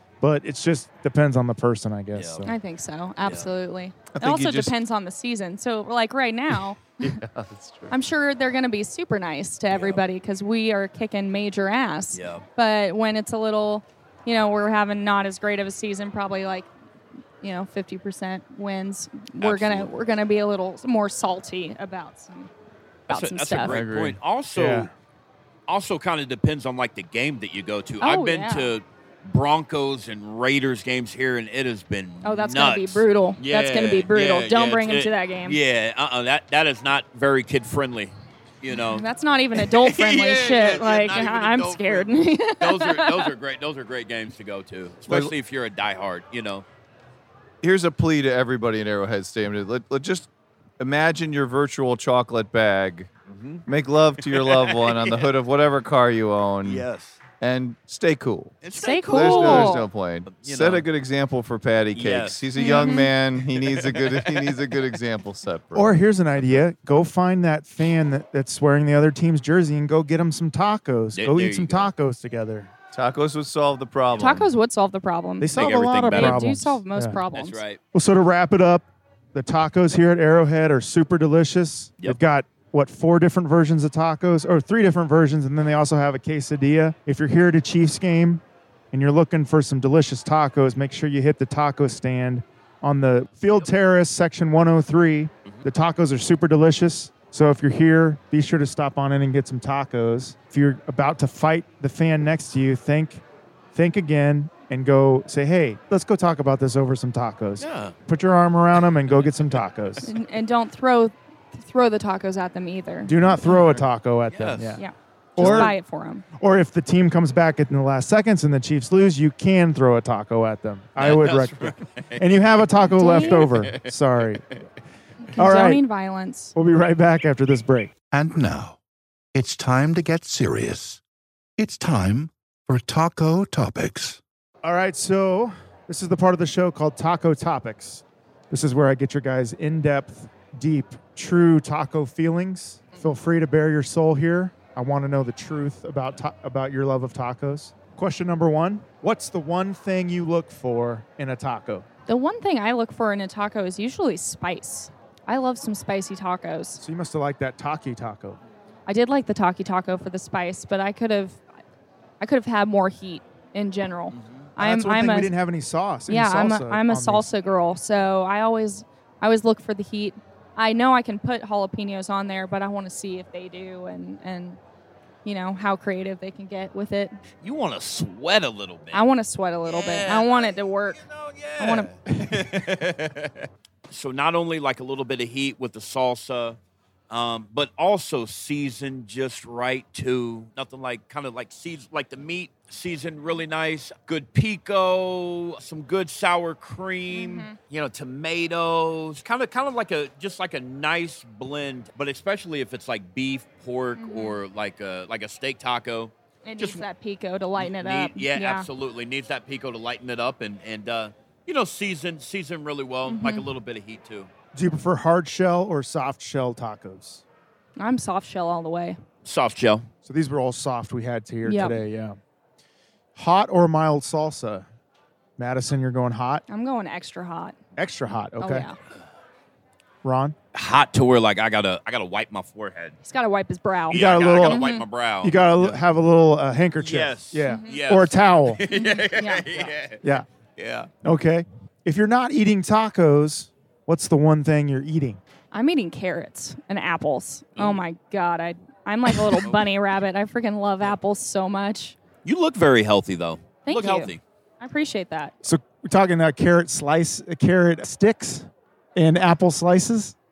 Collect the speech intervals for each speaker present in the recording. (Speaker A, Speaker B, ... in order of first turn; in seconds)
Speaker A: 0.2-2.5, 24.6-24.9, 65.8-72.7, 75.4-77.2, 77.9-103.2, 103.7-110.1, 113.1-114.8, 115.4-115.8, 116.4-124.4, 125.4-125.8, 126.6-127.9, 134.6-151.9, 156.8-158.4, 164.6-167.3, 214.6-217.2, 220.1-222.2, 223.2-224.7, 225.4-226.4, 227.8-228.7, 230.0-230.3, 233.9-234.7, 235.2-238.6, 241.0-245.2, 255.4-260.1
Speaker B: 2.1-2.5, 3.2-3.5, 9.7-10.0, 12.1-12.4, 19.4-19.9, 23.1-24.9, 25.7-46.7, 53.3-53.6, 54.2-55.3, 56.6-57.2, 58.6-60.9, 61.9-62.9, 63.5-64.6, 71.2-71.9, 75.5-76.4, 77.3-77.8, 107.6-108.0, 113.5-114.8, 115.4-115.7, 121.0-122.2, 123.2-124.2, 164.1-164.5, 177.4-179.0, 179.7-186.6, 187.1-206.8, 207.6-214.3, 219.2-219.9, 230.5-233.0, 233.9-235.8, 236.8-240.0, 240.6-240.9, 247.6-247.8, 249.1-249.7, 252.2-254.2
Speaker C: 2.5-7.1, 7.9-16.7, 17.4-22.5, 23.1-23.7, 28.0-28.7, 32.2-35.6, 38.7-43.3, 58.8-59.9, 62.5-63.1, 74.2-77.6, 110.1-113.1, 114.8-116.2, 122.8-123.5, 125.3-126.5, 152.1-156.8, 158.9-161.4, 162.2-165.3, 166.1-174.6, 175.2-177.2, 178.9-181.0, 181.6-181.9, 197.1-197.5, 204.0-204.4, 206.4-208.7, 213.1-213.5, 217.8-219.0, 221.4-221.8, 226.5-227.6, 228.4-228.8, 233.0-234.8, 237.5-237.8, 238.7-239.5, 245.5-252.0, 253.7-255.3
Speaker D: 4.1-4.7, 7.0-8.0, 23.6-24.2, 45.1-45.3, 47.6-50.3, 50.8-53.1, 53.7-56.9, 57.4-66.0, 72.9-74.5
Speaker E: 128.1-128.8, 129.3-131.0, 131.6-134.2